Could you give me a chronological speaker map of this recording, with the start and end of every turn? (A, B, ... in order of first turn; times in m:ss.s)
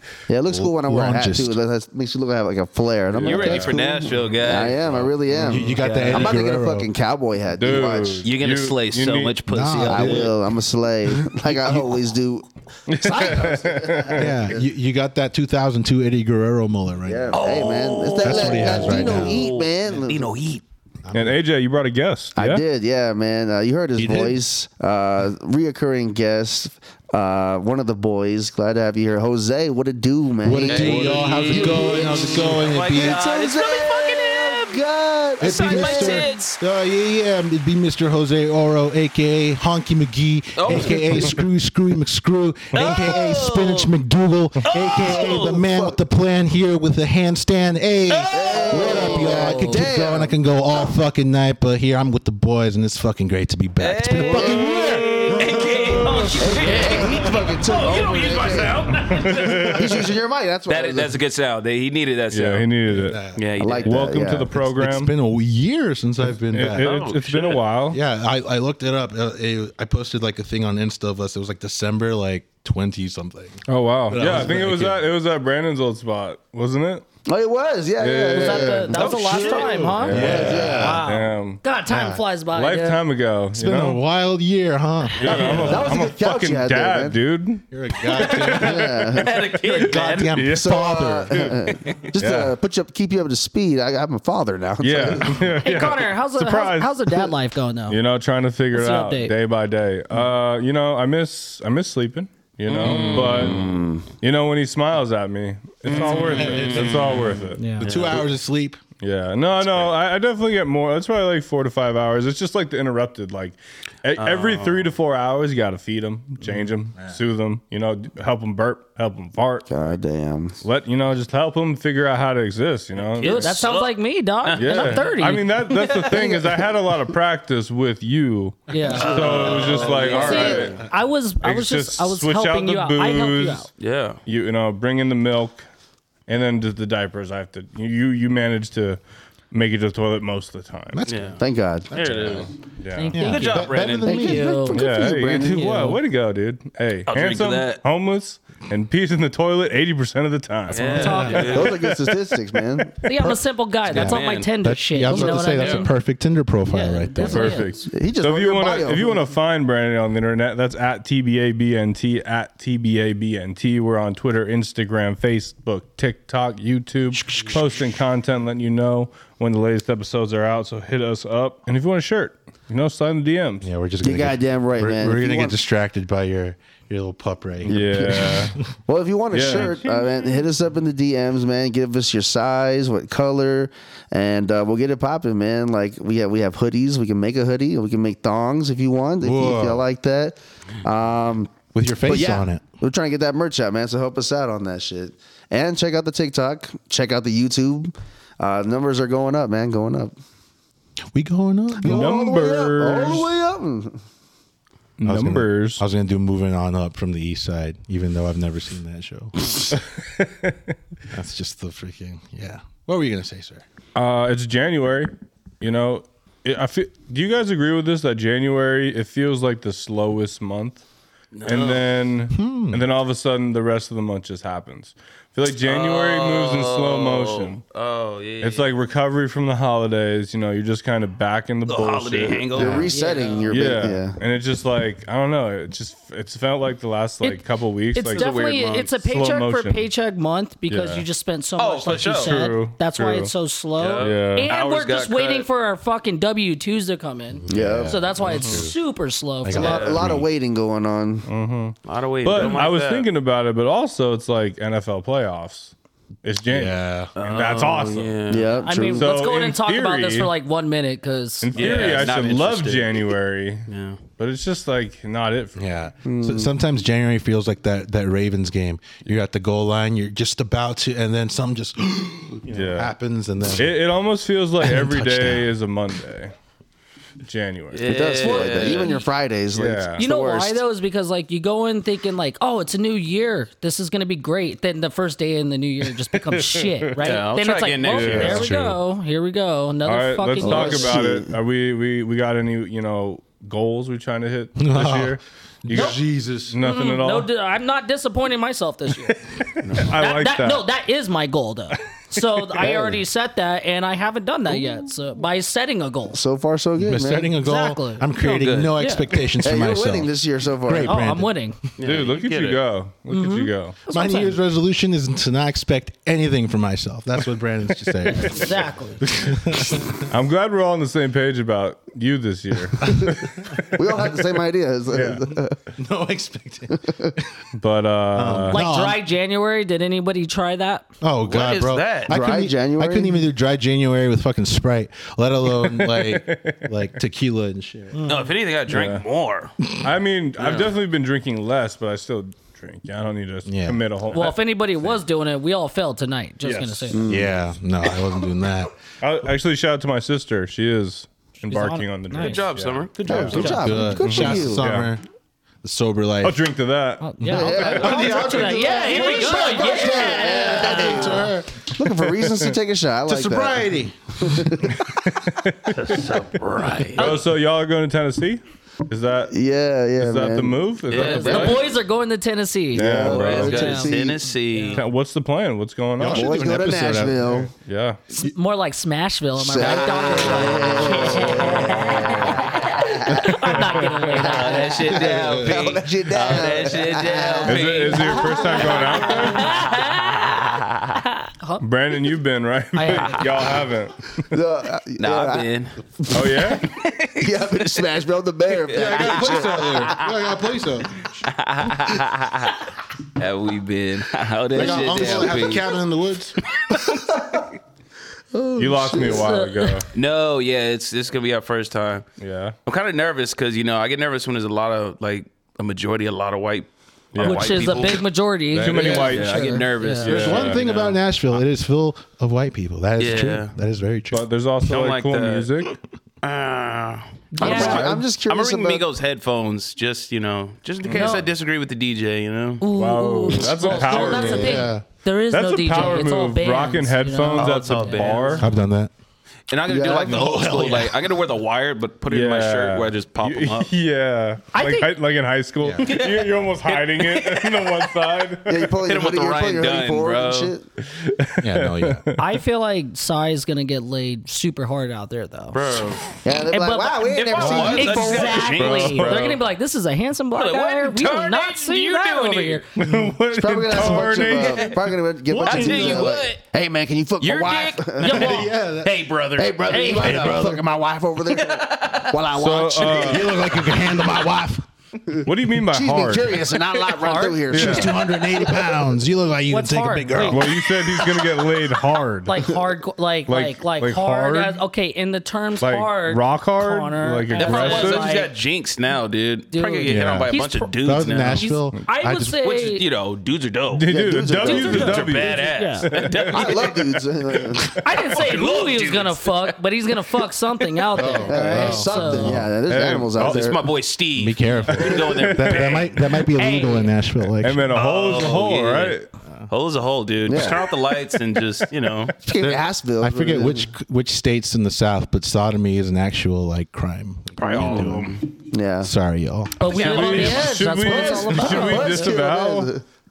0:00.3-0:08.3 A
0:00.5-0:01.6 B
0:03.2-0:03.8 C
0:03.2-0:06.4 D
0:05.3-0:06.9 B
0:07.6-0:09.4 C
0:08.2-0:10.3 D
0:09.5-0:10.4 B
0:09.8-0:14.6 A
0:11.1-0:12.0 B
0:12.9-0:14.4 C
0:14.2-0:17.4 B
0:17.1-0:20.3 A
0:17.3-0:20.6 D
0:18.2-0:19.4 B
0:21.0-0:21.4 B
0:21.1-0:22.6 C
0:22.4-0:36.3 A
0:24.0-0:24.4 B
0:30.4-0:33.2 B
0:30.6-0:34.8 D
0:35.4-0:36.6 D
0:35.4-0:55.7 B
0:36.0-0:36.4 E
0:40.6-0:41.4 D
0:42.7-0:43.0 C
0:42.7-0:43.9 D
0:44.6-0:45.6 D
0:45.1-0:46.0 A
0:48.1-0:49.3 D
0:48.3-0:50.4 A
0:48.7-0:49.9 E
0:53.8-1:00.1 D
0:54.2-0:59.0 A
0:55.9-0:57.1 E
0:56.0-0:56.4 C
0:59.0-1:00.0 C
0:59.7-1:01.2 A
1:00.7-1:02.7 D
1:02.3-1:05.1 C
1:02.9-1:03.4 B
1:03.4-1:04.0 D
1:03.6-1:04.5 A
1:04.5-1:06.9 B
1:06.5-1:08.0 C
1:06.7-1:07.6 D
1:07.9-1:15.1 B
1:13.7-1:17.0 C
1:17.2-1:21.0 A
1:18.0-1:19.1 C
1:18.3-1:23.0 E
1:18.9-1:20.0 D
1:19.7-1:21.0 B
1:19.8-1:21.6 C
1:21.9-1:22.2 B
1:22.5-1:24.0 C
1:23.5-1:26.0 B
1:25.2-1:29.3 C
1:25.3-1:27.2 A
1:25.3-1:25.7 D
1:27.7-1:31.5 B
1:28.2-1:30.4 D
1:28.5-1:29.4 A
1:30.3-1:31.5 C
1:30.5-1:35.5 A
1:31.7-1:32.0 D
1:32.2-1:32.5 C
1:34.8-1:37.3 C
1:35.6-1:38.0 E
1:37.9-1:47.7 C
1:38.7-1:39.3 E
1:42.7-1:43.9 D
1:42.9-1:44.1 A
1:45.9-1:48.8 B
1:45.9-1:48.2 D
1:47.6-1:47.9 E
1:49.0-2:00.0 C
1:54.2-1:54.9 D
1:59.7-2:00.6 A
2:00.6-2:03.7 C
2:03.0-2:05.1 D
2:03.2-2:05.5 E
2:04.6-2:10.8 C
2:05.7-2:06.3 D
2:06.1-2:06.6 A
2:08.7-2:09.3 E
2:08.9-2:10.8 D
2:09.0-2:10.8 A
2:10.1-2:13.7 E
2:11.4-2:13.7 C
2:13.8-2:14.2 D
2:14.2-2:15.7 C
2:16.3-2:19.0 C
2:19.5-2:21.0 C
2:20.9-2:21.4 B
2:21.1-2:21.4 D
2:21.4-2:22.4 A
2:21.9-2:22.5 D
2:22.0-2:22.4 B
2:22.0-2:23.2 C
2:23.0-2:24.8 E
2:23.1-2:24.6 B
2:23.2-2:24.2 D
2:24.0-2:25.9 A
2:24.7-2:32.2 C
2:25.4-2:26.0 E
2:27.1-2:27.8 D
2:30.7-2:31.8 D
2:30.9-2:31.7 E
2:31.0-2:31.5 B
2:31.4-2:33.0 A
2:33.0-2:35.9 E
2:33.9-2:34.5 D
2:33.9-2:37.6 B
2:35.1-2:35.9 D
2:36.7-2:37.8 E
2:37.2-2:53.7 C
2:37.9-2:39.2 A
2:53.6-2:58.6 B
2:54.0-2:55.6 A
2:57.7-2:58.6 C
2:57.7-3:20.1 A
2:59.3-3:00.2 C
3:09.2-3:09.8 B
3:11.7-3:12.6 B
3:21.1-3:22.2 B
3:21.8-3:24.0 A
3:21.8-3:23.3 C
3:25.0-3:25.8 C
3:25.0-3:29.7 B
3:29.7-3:30.7 C
3:31.1-3:33.6 B
3:34.0-3:40.8 C
3:41.3-3:41.8 D
3:41.4-3:47.6 C
3:42.3-3:42.8 B
3:45.6-3:48.7 D
3:48.4-3:52.8 C
3:51.7-3:53.5 D
3:52.5-3:54.2 A
3:52.9-3:53.5 E
3:53.5-3:58.3 C
3:57.9-4:10.0 E
3:58.1-3:58.9 D
3:58.9-3:59.9 C
4:00.7-4:01.0 C
4:01.6-4:02.4 D
4:02.0-4:03.3 C
4:03.8-4:05.5 D
4:04.0-4:04.5 C
4:07.4-4:08.8 B
4:07.5-4:08.1 A
4:08.3-4:08.6 C
4:09.4-4:10.3 B
4:09.5-4:11.3 A
4:09.6-4:10.0 D
4:11.3-4:18.2 C
4:11.9-4:13.1 D
4:16.5-4:17.1 B
4:17.2-4:18.5 D
4:18.3-4:19.1 A
4:18.6-4:21.8 E
4:19.0-4:20.3 C
4:21.4-4:25.7 C
4:21.6-4:23.1 D
4:23.7-4:24.0 D
4:25.6-4:33.8 B
4:26.0-4:26.5 A
4:32.5-4:32.9 C
4:33.6-4:36.3 C
4:34.6-4:35.5 B
4:37.2-4:38.0 C
4:37.7-4:39.0 D
4:37.8-4:40.6 A
4:38.2-4:39.1 E
4:39.5-4:40.0 C
4:40.0-4:51.0 E
4:46.1-4:47.1 C
4:47.0-4:48.5 D
4:47.9-4:48.5 C
4:48.1-4:48.8 B
4:49.8-4:57.3 C
4:50.4-4:51.3 A
4:54.6-4:56.6 B
4:55.7-4:56.0 E
4:56.6-4:59.2 E
4:59.0-5:00.7 C
4:59.8-5:06.2 E
5:02.2-5:02.5 C
5:02.6-5:03.0 A
5:06.1-5:07.4 A
5:06.8-5:10.2 B
5:07.4-5:08.0 E
5:08.2-5:08.8 D
5:08.8-5:09.1 E
5:09.4-5:11.0 A
5:10.7-5:11.3 B
5:10.8-5:11.6 E
5:11.8-5:12.6 D
5:11.8-5:13.8 C
5:13.1-5:14.4 E
5:13.9-5:20.0 B
5:18.0-5:18.4 C
5:18.1-5:19.0 E
5:19.8-5:23.8 C
5:22.8-5:23.1 B
5:23.7-5:25.6 A
5:24.9-5:25.2 C
5:25.8-5:27.3 B
5:26.8-5:27.1 A
5:27.6-5:28.6 C
5:28.1-5:29.0 B
5:28.5-5:30.9 E
5:31.0-5:38.0 B
5:31.3-5:32.2 D
5:32.1-5:33.3 A
5:35.6-5:36.9 C
5:37.9-5:38.3 E
5:38.1-5:39.6 D
5:38.7-5:39.0 C
5:39.8-5:45.0 C
5:40.4-5:40.7 D
5:43.5-5:43.8 B
5:44.1-5:47.0 E
5:46.4-5:47.0 C
5:46.9-5:47.4 A
5:47.1-5:48.7 B
5:49.0-5:54.9 C
5:51.5-5:52.4 E
5:52.1-5:53.8 D
5:53.0-5:54.7 A
5:53.1-5:55.0 B
5:55.6-5:56.4 B
5:56.2-5:58.2 C
5:57.0-6:01.3 E
5:57.3-6:03.7 A
5:57.3-6:01.6 B
5:58.8-5:59.6 D
6:03.1-6:04.9 B
6:04.2-6:04.8 A
6:04.9-6:06.1 C
6:05.7-6:07.2 D
6:06.6-6:07.0 B
6:07.0-6:09.3 C
6:09.3-6:11.6 A
6:10.0-6:11.7 C
6:10.9-6:11.7 D
6:11.0-6:12.9 E
6:12.7-6:13.8 C
6:12.8-6:14.3 A
6:13.0-6:14.8 D
6:13.4-6:13.9 E
6:14.7-6:16.4 C
6:16.0-6:17.5 B
6:16.0-6:17.5 A
6:17.5-6:18.0 C
6:18.1-6:25.0 E
6:19.4-6:23.4 A
6:19.6-6:22.2 D
6:23.1-6:24.3 C
6:24.1-6:28.9 D
6:24.2-6:29.0 A
6:24.9-6:25.7 B
6:27.4-6:29.8 C
6:28.1-6:30.6 E
6:29.4-6:30.6 D
6:31.2-6:31.6 E
6:31.6-6:34.3 C
6:32.7-6:33.5 E
6:34.3-6:36.6 A
6:35.0-6:35.8 D
6:36.1-6:36.7 C
6:36.6-6:37.9 D
6:37.2-6:39.9 A
6:38.7-6:40.3 D
6:38.7-6:41.1 B
6:41.2-6:45.8 D
6:44.5-6:46.4 B
6:44.6-6:45.5 A
6:46.6-6:47.2 D
6:48.3-6:49.3 A
6:48.6-6:49.9 C
6:49.0-6:49.8 E
6:49.9-6:52.1 D
6:52.2-6:52.6 C
6:52.7-7:01.0 D
6:57.1-6:57.9 C
6:57.2-7:00.1 E
6:58.5-7:00.7 C
7:00.0-7:04.3 B
7:03.0-7:03.5 D
7:04.1-7:05.8 C
7:04.7-7:05.5 D
7:06.2-7:12.6 D
7:07.3-7:07.9 E
7:07.4-7:08.8 A
7:07.5-7:07.9 C
7:10.9-7:11.2 C
7:10.9-7:11.3 E
7:12.6-7:18.4 E
7:12.7-7:14.7 C
7:13.8-7:14.1 D
7:14.0-7:14.8 B
7:15.3-7:18.5 C
7:17.4-7:18.5 D
7:18.4-7:18.9 B
7:19.5-7:23.7 D
7:19.7-7:20.8 A
7:20.0-7:21.1 B
7:22.1-7:28.7 C
7:24.5-7:24.9 E
7:25.6-7:25.9 B
7:25.8-7:27.9 D
7:28.5-7:30.7 A
7:28.8-7:30.5 D
7:30.9-7:32.3 C
7:31.4-7:32.0 B
7:32.2-7:35.6 E
7:35.5-7:36.0 D
7:36.2-7:38.6 A
7:36.5-7:42.7 E
7:37.0-7:39.4 D
7:38.5-7:39.4 C
7:40.4-7:42.6 D
7:42.8-7:44.8 C
7:43.3-7:48.4 A
7:44.0-7:46.4 D
7:45.4-7:46.1 B
7:47.2-7:50.5 D
7:48.0-7:48.5 E
7:48.0-7:49.0 B
7:49.4-7:53.7 A
7:49.7-7:50.2 E
7:50.0-7:50.6 B
7:51.3-7:52.2 D
7:52.3-7:53.3 C
7:52.9-7:54.6 B
7:55.1-7:58.6 A
7:55.2-7:56.4 C
7:56.9-7:57.8 E
7:57.5-7:58.0 C
7:57.5-8:01.0 B
7:59.5-8:00.5 E
8:00.3-8:02.5 C
8:02.2-8:08.3 E
8:03.3-8:04.6 C
8:05.6-8:08.2 C
8:07.4-8:11.5 D
8:09.5-8:10.7 E
8:09.9-8:12.4 B
8:11.2-8:12.8 E
8:12.4-8:13.9 D
8:13.7-8:16.6 C
8:13.9-8:15.1 A
8:14.4-8:16.9 D
8:14.4-8:15.9 E
8:16.3-8:17.7 A
8:17.7-8:19.6 D
8:17.8-8:22.4 E
8:21.0-8:22.5 B
8:21.3-8:23.6 A
8:22.7-8:23.4 C
8:23.1-8:26.0 D
8:24.2-8:27.7 B
8:24.7-8:25.8 C
8:26.3-8:26.9 E
8:27.4-8:29.1 C
8:27.7-8:29.0 D
8:29.5-8:32.2 D
8:30.3-8:30.6 A
8:32.2-8:33.7 A
8:32.4-8:38.2 B
8:37.4-8:38.3 D
8:37.6-8:38.9 A
8:38.8-8:39.6 B
8:39.6-8:42.2 E
8:39.7-8:40.6 D
8:39.7-8:42.7 C
8:40.8-8:42.8 A